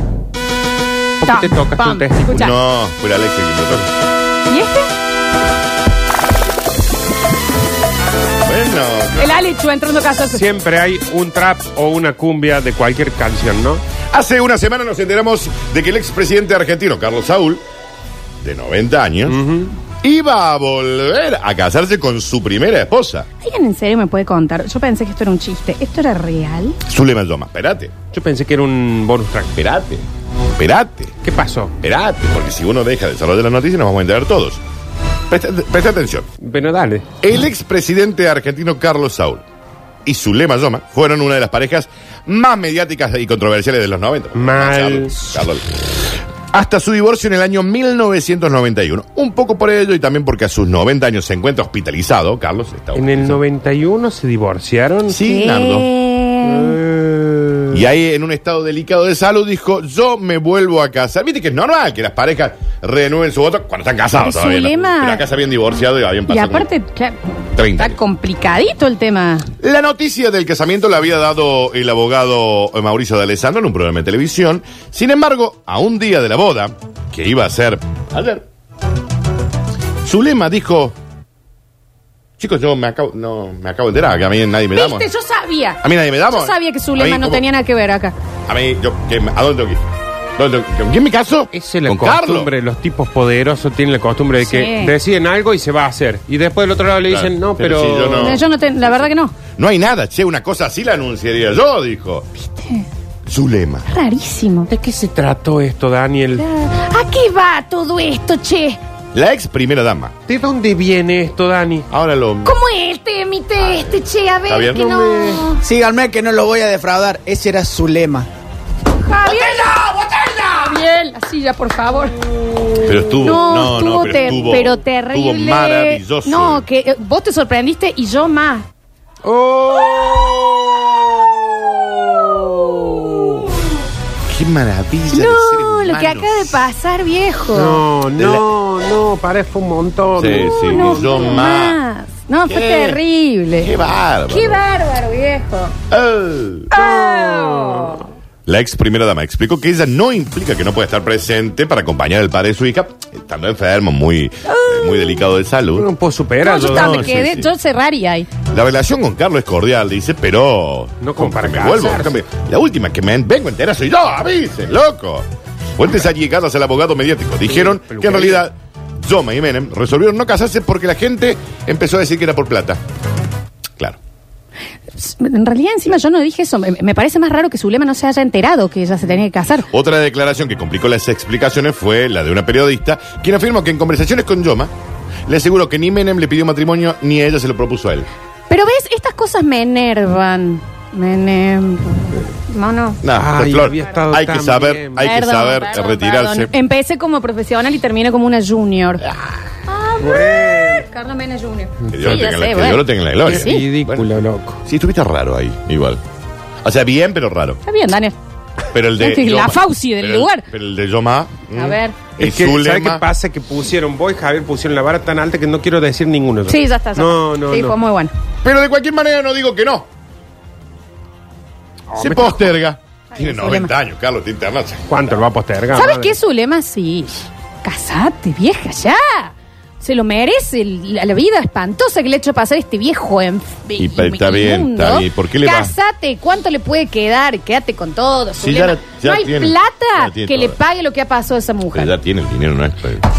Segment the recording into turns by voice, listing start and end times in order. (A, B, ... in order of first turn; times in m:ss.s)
0:01.2-0:02.4 A
0:01.2-0:02.6 B
0:02.3-0:03.9 C
0:04.5-0:04.9 B
0:08.4-0:09.4 C
0:09.2-0:10.4 B
0:10.3-0:13.8 A
0:14.1-0:17.6 C
0:18.4-0:19.4 C
0:19.3-0:19.8 A
0:20.0-0:23.3 C
0:23.4-0:26.8 B
0:26.9-0:27.9 C
0:28.1-0:29.5 A
0:29.6-0:31.2 C
0:31.2-0:31.8 A
0:31.8-0:34.6 C
0:35.3-0:36.3 C
0:36.4-0:37.1 A
0:37.2-0:39.4 C
0:40.0-0:45.8 C
0:44.4-0:45.3 A
0:46.5-0:53.4 C
0:53.0-0:55.2 A
0:55.1-0:55.9 C
0:55.2-0:56.8 B
0:56.5-0:57.7 A
0:57.7-1:06.7 C
1:04.2-1:05.2 B
1:06.3-1:09.5 B
1:07.6-1:08.0 C
1:09.6-1:18.4 C
1:20.0-1:21.0 C
1:22.4-1:25.1 C
1:24.7-1:28.2 B
1:25.8-1:27.4 C
1:28.5-1:29.8 C
1:30.4-1:32.5 C
1:31.5-1:38.4 A
1:34.4-1:35.0 B
1:37.0-1:38.4 C
1:38.2-1:39.4 B
1:39.6-1:42.3 C
1:42.4-1:42.9 B
1:43.3-1:43.9 C
1:43.9-1:44.7 B
1:44.7-1:46.4 A
1:46.4-1:48.8 B
1:49.1-1:50.1 C
1:50.3-1:51.9 A
1:51.9-1:52.6 C
1:52.4-1:55.6 B
1:53.6-1:55.0 C
1:54.9-1:55.4 A
1:55.6-1:58.3 D
1:59.0-2:02.2 B
1:59.3-2:00.2 C
2:02.7-2:08.7 B
2:02.8-2:06.6 C
2:09.2-2:13.1 A
2:14.3-2:16.7 C
2:15.1-2:17.8 B
2:17.5-2:21.1 A
2:18.2-2:18.5 C
2:20.2-2:21.8 C
2:20.7-2:23.8 B
2:22.5-2:23.0 C
2:23.6-2:24.6 C
2:24.3-2:25.8 B
2:25.9-2:26.7 C
2:26.7-2:28.0 B
2:26.8-2:28.0 A
2:28.5-2:35.9 C
2:34.4-2:35.3 B
2:35.8-2:37.2 A
2:36.4-2:38.3 B
2:36.6-2:37.5 C
2:38.5-2:45.3 C
2:41.0-2:42.2 A
2:45.8-2:52.8 C
2:47.5-2:48.4 A
2:55.0-2:59.7 B
2:59.7-3:04.7 C
3:05.3-3:08.1 C
3:08.5-3:13.0 B
3:13.0-3:16.5 C
3:13.2-3:15.1 A
3:15.0-3:19.0 B
3:19.0-3:19.4 C
3:19.7-3:23.7 B
3:20.0-3:20.8 A
3:21.9-3:24.1 C
3:23.3-3:24.6 A
3:24.6-3:26.0 C
3:26.6-3:27.6 C
3:27.7-3:28.2 B
3:28.7-3:33.0 C
3:29.0-3:30.5 B
3:31.5-3:32.0 B
3:32.2-3:37.8 A
3:36.5-3:38.1 B
3:38.4-3:39.9 C
3:42.0-3:44.9 C
3:42.0-3:42.3 A
3:42.0-3:42.5 B
3:43.1-3:43.7 B
3:44.9-3:46.2 A
3:45.7-4:01.9 B
3:53.8-3:55.7 C
3:58.4-4:00.6 C
4:01.7-4:03.0 C